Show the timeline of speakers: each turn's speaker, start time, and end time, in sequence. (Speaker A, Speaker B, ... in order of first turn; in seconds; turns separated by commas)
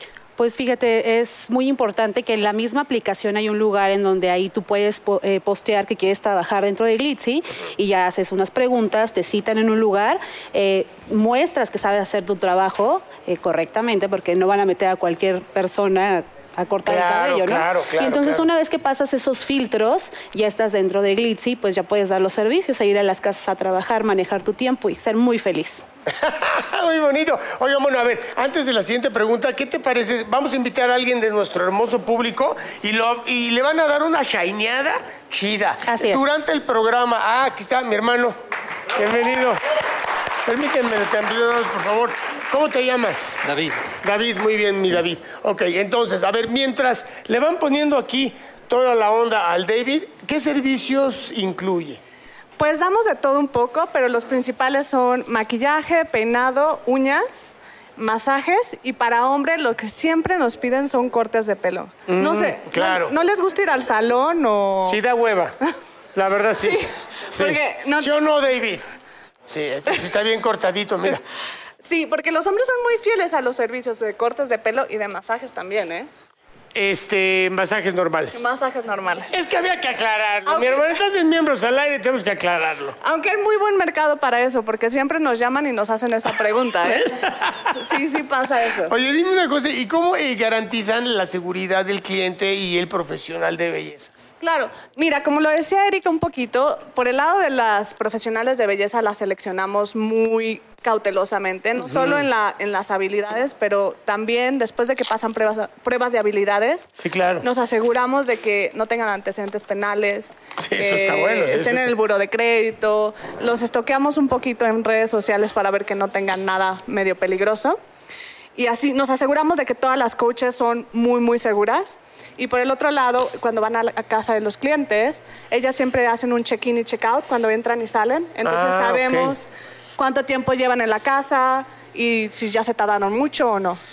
Speaker A: 0.4-25.8, Speaker B: 16.9-18.5, Speaker B: 26.1-38.4, Speaker A: 35.8-36.3, Speaker B: 39.0-39.6, Speaker B: 40.5-43.4, Speaker B: 44.0-52.0, Speaker C: 52.6-65.0, Speaker B: 62.1-63.1, Speaker B: 64.9-65.6, Speaker B: 66.2-68.8, Speaker C: 66.6-68.1, Speaker B: 69.5-71.2, Speaker C: 71.8-76.1, Speaker B: 76.8-78.4, Speaker C: 78.3-79.4, Speaker B: 79.3-83.0, Speaker C: 80.5-80.8, Speaker C: 83.0-87.2, Speaker B: 86.9-87.6, Speaker C: 87.7-88.9, Speaker B: 88.9-94.1, Speaker C: 94.4-106.9, Speaker B: 101.8-102.3, Speaker B: 107.0-107.5, Speaker C: 107.4-117.8, Speaker B: 110.6-111.9, Speaker C: 118.6-133.8, Speaker B: 128.4-129.3